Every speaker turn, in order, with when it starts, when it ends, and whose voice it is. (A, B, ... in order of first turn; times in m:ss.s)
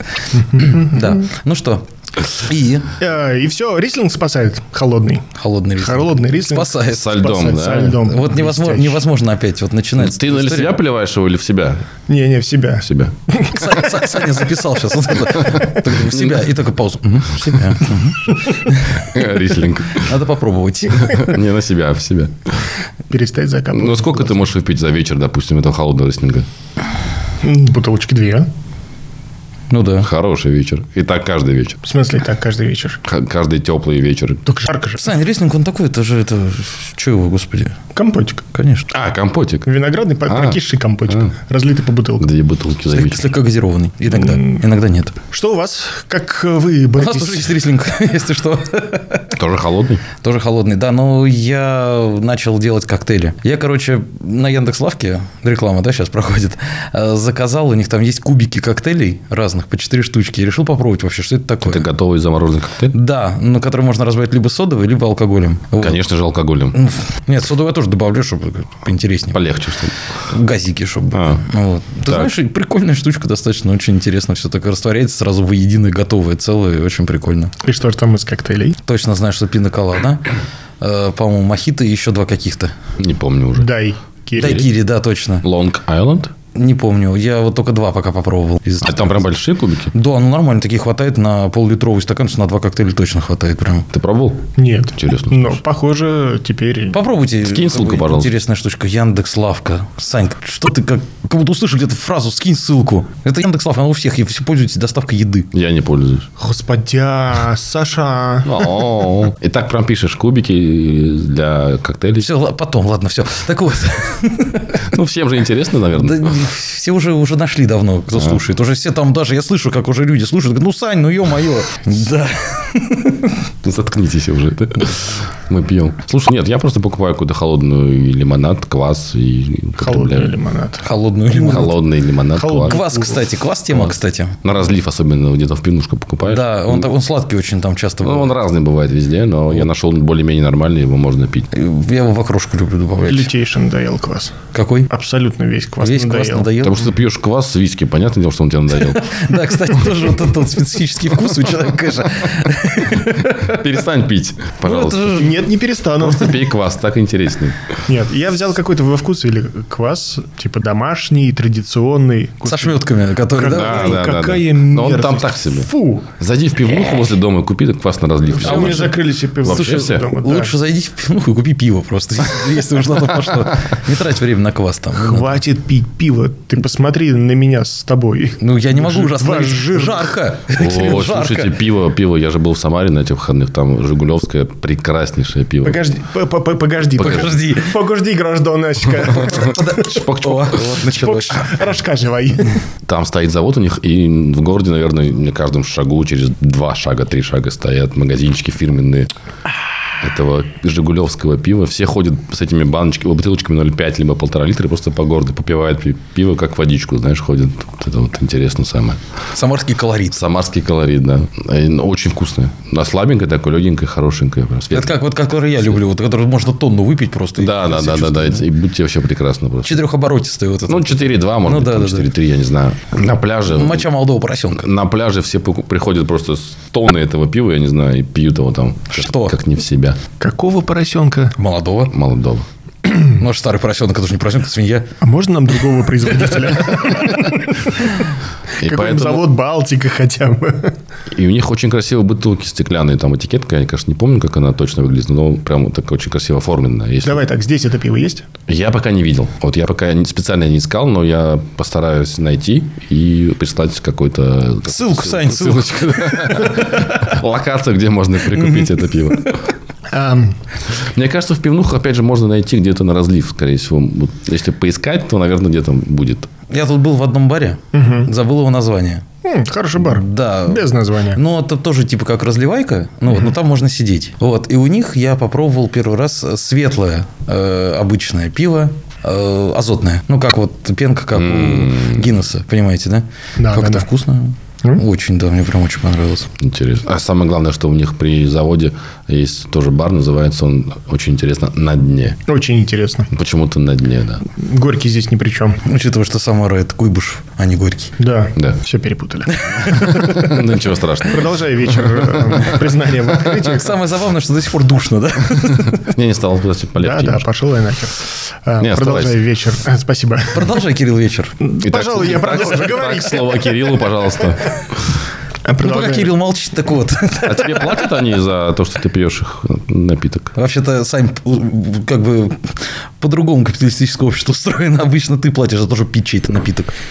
0:00.5-0:01.2 A
0:00.5-0:02.9 B
0:03.0-0:05.3 A
0:05.4-0:07.2 B
0:05.8-0:09.0 A
0:06.9-0:08.1 C
0:08.0-0:10.8 B
0:10.0-0:11.8 C
0:12.1-0:14.2 A
0:12.8-0:13.1 C
0:13.5-0:19.1 B
0:16.0-0:16.5 C
0:19.0-0:20.1 C
0:19.9-0:21.3 B
0:21.0-0:22.7 C
0:23.1-0:24.4 A
0:23.7-0:26.5 C
0:27.4-0:28.5 A
0:29.7-0:30.1 B
0:30.0-0:31.8 C
0:31.8-0:33.0 A
0:33.0-0:34.4 C
0:34.5-0:35.2 A
0:35.0-0:37.8 B
0:38.0-0:38.4 A
0:38.5-0:38.9 B
0:38.9-0:39.7 C
0:39.7-0:42.3 A
0:40.3-0:41.3 C
0:42.2-0:43.2 C
0:42.9-0:45.2 B
0:44.1-0:44.6 A
0:45.3-0:47.6 A
0:47.0-0:49.3 B
0:49.4-0:50.0 C
0:50.2-1:01.8 B
1:01.6-1:02.9 C
1:02.9-1:06.0 B
1:05.8-1:06.8 C
1:06.8-1:09.4 B
1:09.3-1:10.0 C
1:10.3-1:17.5 B
1:11.1-1:11.4 C
1:12.1-1:12.3 C
1:17.6-1:18.8 A
1:18.8-1:20.3 B
1:20.8-1:22.7 B
1:23.0-1:23.7 C
1:23.6-1:24.7 A
1:24.4-1:25.5 B
1:24.4-1:24.7 C
1:25.4-1:26.3 C
1:26.5-1:29.2 B
1:28.8-1:29.9 C
1:29.9-1:33.9 B
1:33.9-1:35.6 C
1:34.6-1:37.0 A
1:36.9-1:45.5 B
1:37.4-1:38.3 C
1:45.5-1:46.3 C
1:46.4-1:48.9 A
1:48.4-1:52.3 C
1:52.2-1:54.8 B
1:54.8-1:56.4 C
1:56.0-2:03.4 B
1:58.1-1:58.4 C
2:03.6-2:10.3 C
2:09.8-2:11.8 A
2:10.8-2:11.8 B
2:11.4-2:12.8 C
2:12.3-2:13.2 A
2:12.6-2:14.4 B
2:14.4-2:16.8 C
2:16.2-2:18.3 B
2:18.0-2:21.5 C
2:21.5-2:23.3 B
2:23.0-2:24.4 A
2:24.5-2:24.9 B
2:24.9-2:26.5 A
2:25.8-2:26.8 B
2:26.6-2:29.1 C
2:28.8-2:33.6 B
2:33.2-2:35.2 C
2:34.6-2:35.4 B
2:35.1-2:36.5 A
2:36.0-2:37.8 C
2:37.9-2:46.1 A
2:42.5-2:44.0 B
2:43.5-2:50.1 C
2:48.4-2:50.6 A
2:48.4-2:55.4 B
2:55.0-3:00.2 A
2:58.4-3:01.6 B
3:00.5-3:05.8 C
3:05.6-3:10.0 A
3:07.0-3:07.8 B
3:07.0-3:07.4 C
3:09.1-3:11.6 B
3:09.8-3:10.8 C
3:10.9-3:12.6 A
3:12.9-3:19.1 C
3:20.0-3:29.0 C
3:29.3-3:30.2 B
3:30.1-3:35.0 C
3:34.7-3:38.4 B
3:37.4-3:39.8 C
3:39.6-3:42.1 B
3:40.7-3:43.8 C
3:43.5-3:44.6 B
3:44.6-3:50.0 C
3:48.9-3:49.4 B
3:50.2-3:51.4 A
3:51.4-3:51.9 B
3:51.9-3:52.5 C
3:53.0-3:54.9 B
3:55.0-4:00.8 A
3:58.6-3:59.2 C
4:01.1-4:07.2 C
4:07.0-4:08.2 A
4:08.5-4:19.4 C
4:14.7-4:16.6 B
4:18.3-4:19.4 B
4:19.9-4:20.4 A
4:20.7-4:26.3 C
4:26.5-4:29.0 B
4:27.7-4:28.1 A
4:29.2-4:31.2 A
4:29.8-4:46.3 B
4:41.1-4:42.1 C
4:43.4-4:43.9 A
4:46.4-4:52.2 C
4:52.3-4:53.1 A
4:53.1-4:54.2 C
4:54.3-4:55.6 A
4:55.6-4:58.0 B
4:58.0-5:00.5 A
4:59.3-5:00.2 B
4:59.6-5:02.5 C
5:01.1-5:03.8 A
5:03.3-5:05.9 B
5:05.7-5:07.2 C
5:06.8-5:10.6 A
5:08.6-5:09.2 C
5:10.3-5:11.4 B
5:11.4-5:13.9 A
5:11.6-5:14.8 C
5:15.4-5:16.1 A
5:15.6-5:17.9 B
5:17.2-5:20.4 C
5:20.4-5:26.7 B